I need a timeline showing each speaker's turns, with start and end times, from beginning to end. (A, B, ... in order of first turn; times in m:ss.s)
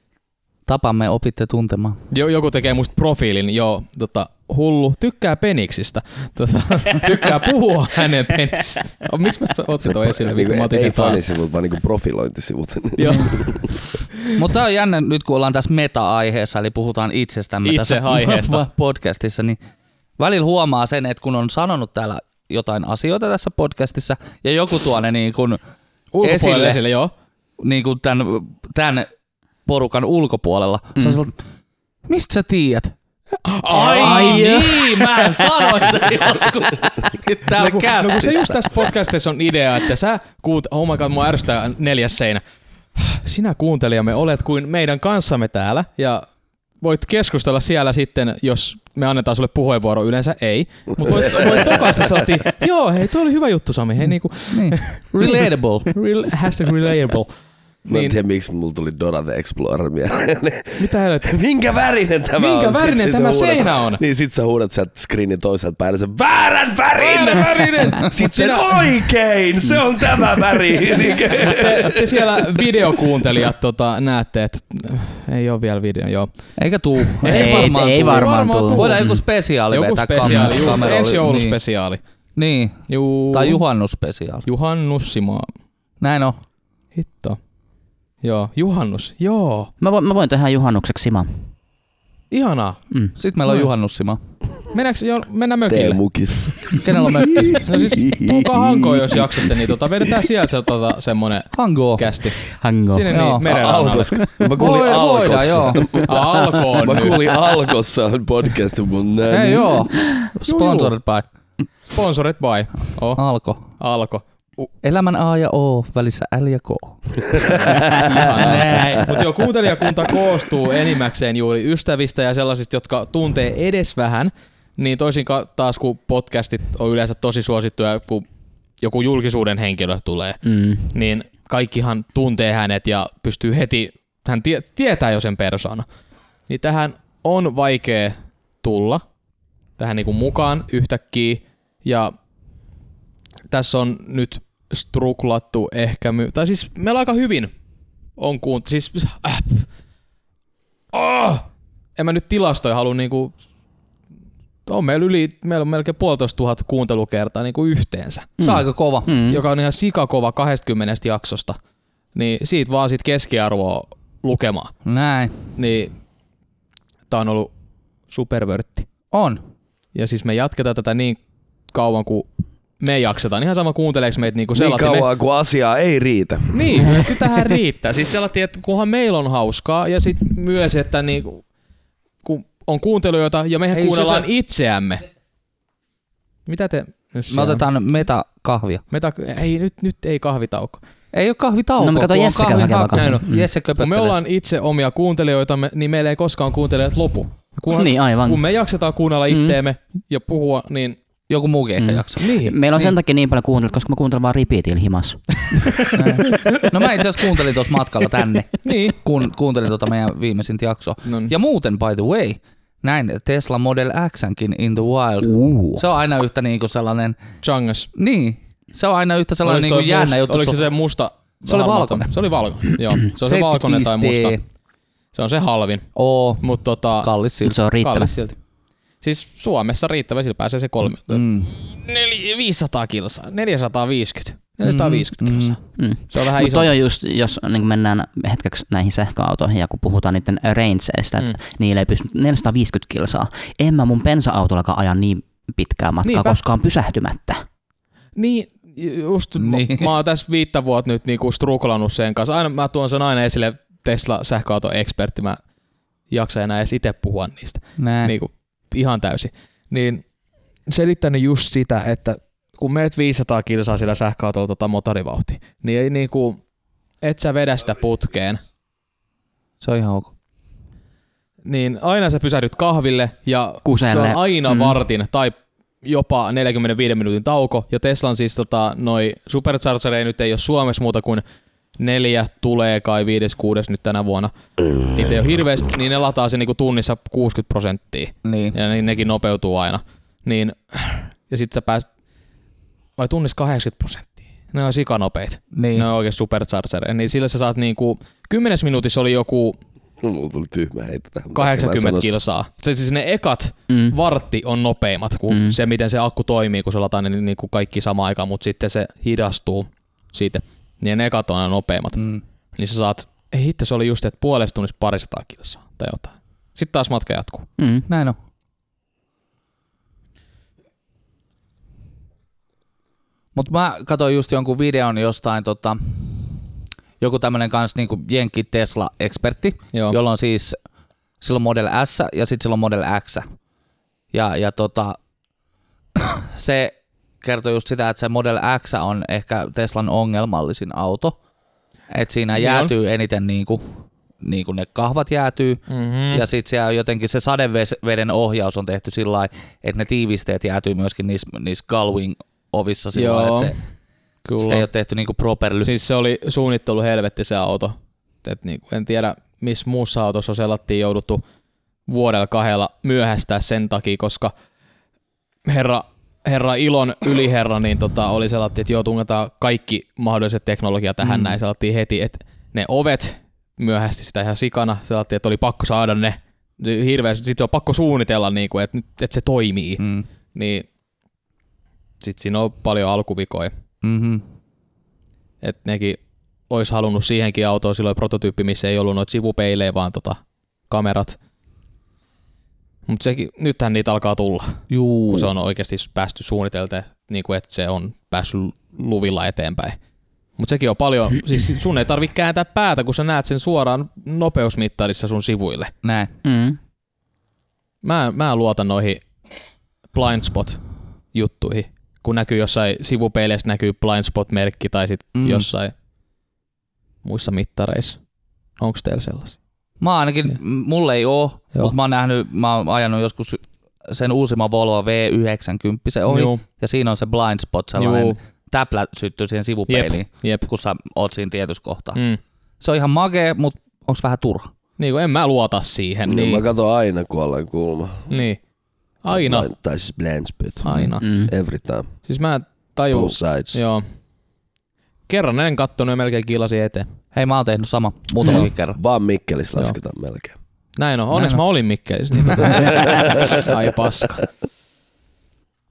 0:00.7-0:02.0 A
0:02.1-0:11.2 B
0:09.8-0:13.7 C
0:13.0-0:14.1 B
0:14.3-0:19.6 A
0:17.6-0:18.6 B
0:20.2-0:25.6 A
0:26.1-0:27.1 B
0:26.2-0:26.8 A
0:27.6-0:29.1 A
0:29.7-0:31.3 A
0:31.0-0:31.2 D
0:32.1-0:32.9 A
0:33.5-0:36.5 B
0:33.7-0:38.9 A
0:34.0-0:34.7 D
0:37.5-0:42.4 B
0:43.0-0:46.3 B
0:46.8-0:57.3 B
0:51.1-0:51.7 C
0:54.5-0:55.9 A
0:57.8-0:58.2 B
0:57.9-1:12.5 C
1:00.8-1:01.3 B
1:02.4-1:04.0 B
1:07.0-1:08.9 B
1:11.3-1:16.3 B
1:16.6-1:21.6 A
1:17.0-1:19.1 B
1:17.3-1:19.2 D
1:19.7-1:22.0 B
1:22.4-1:24.5 A
1:22.9-1:23.6 B
1:24.5-1:25.5 B
1:26.0-1:26.4 A
1:27.0-1:27.4 B
1:28.2-1:29.7 B
1:29.8-1:31.5 D
1:32.3-1:32.8 B
1:33.2-1:34.2 A
1:33.5-1:33.7 B
1:34.7-1:36.0 B
1:35.7-1:39.5 C
1:36.8-1:37.7 A
1:37.6-1:42.4 B
1:41.5-1:42.1 A
1:42.6-1:43.1 D
1:42.9-1:44.2 B
1:43.1-1:43.5 A
1:43.4-1:49.8 C
1:44.5-1:45.9 A
1:46.0-1:47.2 B
1:49.3-1:51.3 A
1:50.5-1:50.9 B
1:51.9-1:53.2 B
1:53.2-1:53.7 A
1:53.8-1:54.7 B
1:54.8-1:57.2 A
1:57.3-1:58.1 C
1:57.9-2:08.2 B
1:58.1-1:59.2 A
2:08.8-2:15.8 B
2:10.4-2:10.9 D
2:16.5-2:19.0 B
2:19.8-2:22.1 B
2:23.5-2:27.5 B
2:28.2-2:29.7 B
2:30.9-2:33.3 B
2:34.7-2:38.3 B
2:38.4-2:39.4 D
2:38.4-2:39.1 A
2:39.3-2:41.6 B
2:42.2-2:44.7 B
2:44.8-2:45.4 A
2:45.6-2:45.9 B
2:47.1-2:47.5 B
2:48.1-2:48.9 B
2:49.1-2:49.4 A
2:49.9-2:51.2 B
2:51.7-2:52.3 B
2:52.8-2:55.1 B
2:54.5-2:57.3 C
2:56.5-3:01.4 B
3:02.2-3:05.0 B
3:03.7-3:04.3 A
3:06.5-3:07.7 B
3:07.3-3:08.8 A
3:08.9-3:10.8 B
3:11.1-3:14.2 A
3:11.8-3:13.5 D
3:12.9-3:13.3 B
3:13.8-3:21.0 B
3:17.7-3:18.4 D
3:19.3-3:19.6 D
3:21.3-3:22.3 A
3:21.8-3:25.8 D
3:22.2-3:22.9 B
3:25.9-3:37.2 A
3:28.6-3:29.0 B
3:31.0-3:31.3 B
3:35.2-3:35.8 D
3:37.4-3:37.9 B
3:38.0-3:40.6 A
3:39.4-3:44.4 B
3:41.5-3:42.2 A
3:43.0-3:44.4 A
3:45.1-3:45.9 B
3:46.0-3:47.6 A
3:46.4-3:47.1 B
3:47.4-3:48.1 D
3:47.8-3:48.4 B
3:49.0-3:56.7 B
3:51.1-3:51.5 A
3:54.6-3:55.6 A
3:55.8-4:07.4 D
4:06.0-4:06.4 B
4:08.2-4:15.4 B
4:09.4-4:09.9 A
4:16.1-4:20.0 B
4:17.8-4:18.2 A
4:20.7-4:26.4 B
4:27.0-4:28.4 B
4:29.6-4:30.1 A
4:31.4-4:41.2 B
4:33.6-4:34.8 D
4:41.8-4:44.3 B
4:44.9-4:51.9 B
4:48.2-4:48.6 A
4:53.0-4:59.6 B
4:55.5-4:55.9 A
5:00.0-5:02.2 C
5:01.3-5:17.5 B
5:03.7-5:04.0 D
5:05.3-5:05.6 D
5:17.6-5:17.9 D
5:17.9-5:18.2 A
5:23.3-5:26.3 A
5:27.0-5:30.6 A
5:31.2-5:33.2 A
5:34.1-5:35.0 A
5:36.0-5:41.2 A
5:41.9-5:43.6 A
5:42.4-5:42.7 B
5:44.2-5:53.6 A
5:45.7-5:46.2 B
5:52.9-5:53.5 B
5:54.2-5:54.6 B
5:54.4-5:55.7 A
5:55.6-6:01.2 B
6:01.9-6:04.3 B
6:05.4-6:20.6 B
6:19.8-6:20.1 A
6:22.0-6:23.5 B
6:23.8-6:24.2 A
6:25.4-6:31.2 B
6:32.9-6:39.8 B
6:34.7-6:35.3 A
6:40.4-6:45.7 B
6:45.8-6:46.1 A
6:46.2-6:46.6 D
6:47.8-6:49.0 B
6:49.9-6:50.6 B
6:51.1-6:55.7 B
6:55.2-6:55.5 A
6:57.0-6:58.0 B
6:58.6-6:59.4 B
6:59.8-7:12.0 A
7:06.1-7:06.4 B
7:07.8-7:08.2 B
7:09.7-7:10.4 B
7:12.6-7:14.5 A
7:14.8-7:16.4 B
7:16.0-7:18.1 C
7:18.1-7:18.4 B
7:19.0-7:19.5 B
7:19.1-7:21.9 C
7:20.6-7:21.0 B
7:21.0-7:21.3 D
7:22.0-7:23.8 B
7:22.9-7:23.6 C
7:25.1-7:26.9 B
7:27.1-7:28.8 A
7:28.7-7:30.3 C
7:30.8-7:34.2 B
7:31.1-7:31.4 A
7:32.3-7:32.8 A
7:32.8-7:33.4 C